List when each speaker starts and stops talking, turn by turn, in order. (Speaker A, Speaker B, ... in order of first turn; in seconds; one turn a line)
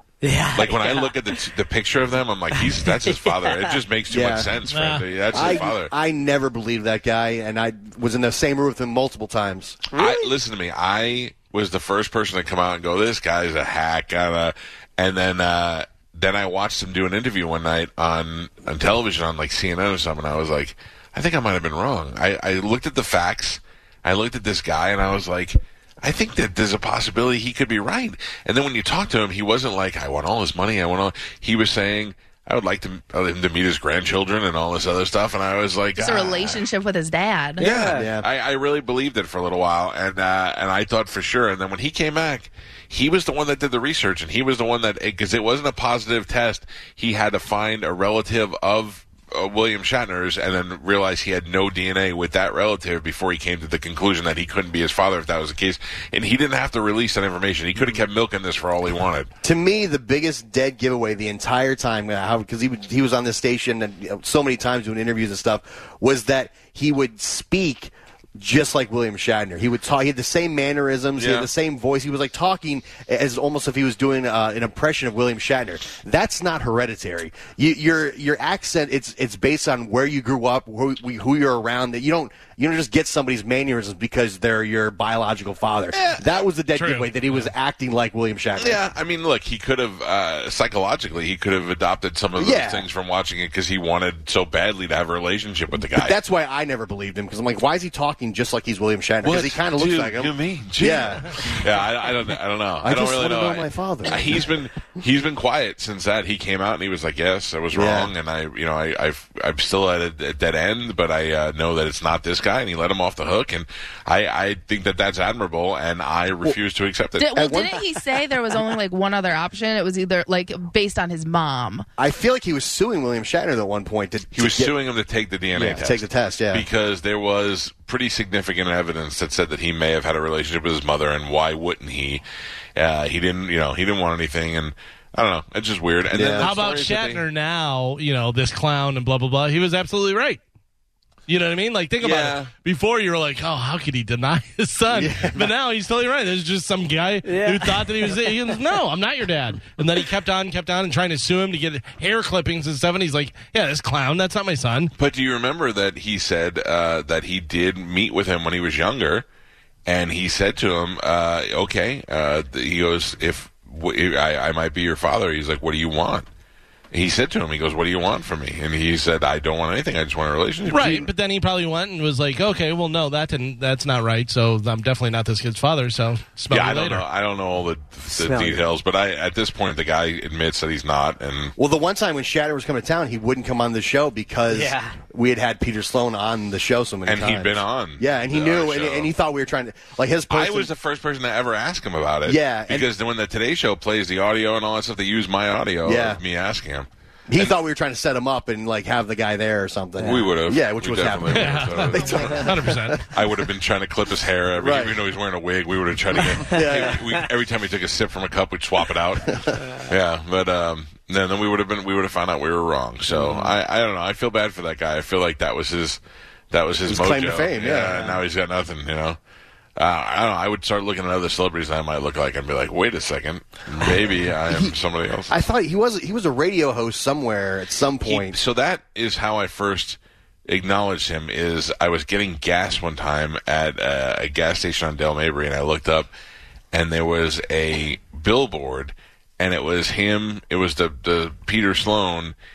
Speaker A: 0.2-1.1
Speaker B: 0.5-5.9
Speaker A: 2.5-3.8
Speaker C: 4.1-4.5
Speaker D: 4.7-5.1
Speaker C: 5.3-9.8
Speaker A: 9.9-10.3
Speaker B: 9.9-36.6
Speaker E: 36.0-37.7
Speaker C: 36.0-36.3
Speaker A: 37.6-38.1
Speaker B: 37.6-59.3
Speaker C: 37.9-38.3
Speaker C: 59.4-88.8
Speaker B: 71.2-71.5
Speaker B: 85.9-86.2
Speaker D: 86.7-87.4
Speaker B: 88.5-96.2
Speaker C: 92.4-92.8
Speaker C: 95.9-101.6
Speaker B: 99.2-117.3
Speaker C: 102.8-104.5
Speaker C: 107.7-108.1
Speaker E: 117.2-121.8
Speaker C: 117.3-118.0
Speaker C: 122.0-124.7
Speaker B: 124.3-132.2
Speaker C: 125.5-126.7
Speaker B: 132.8-137.2
Speaker C: 136.1-136.5
Speaker D: 136.4-140.4
Speaker D: 141.3-154.9
Speaker B: 142.0-142.5
Speaker C: 144.9-145.5
Speaker A: 147.2-148.1
Speaker B: 154.9-159.2
Speaker B: 159.8-166.3
Speaker B: 166.9-171.1
Speaker D: 170.7-177.1
Speaker B: 176.5-181.5
Speaker A: 178.1-178.6
Speaker C: 181.6-190.7
Speaker A: 184.5-185.0
Speaker B: 187.1-189.1
Speaker B: 190.3-197.6
Speaker C: 192.2-192.9
Speaker C: 195.8-196.2
Speaker C: 197.3-203.0
Speaker B: 200.0-202.4
Speaker D: 201.3-203.1
Speaker B: 203.1-216.0
Speaker C: 204.6-205.0
Speaker C: 206.2-207.2
Speaker C: 209.3-209.7
Speaker C: 213.1-213.5
Speaker B: 216.5-219.2
Speaker C: 216.9-218.2
Speaker B: 219.8-225.3
Speaker C: 223.8-224.7
Speaker C: 225.3-228.4
Speaker B: 228.0-236.1
Speaker B: 236.7-242.3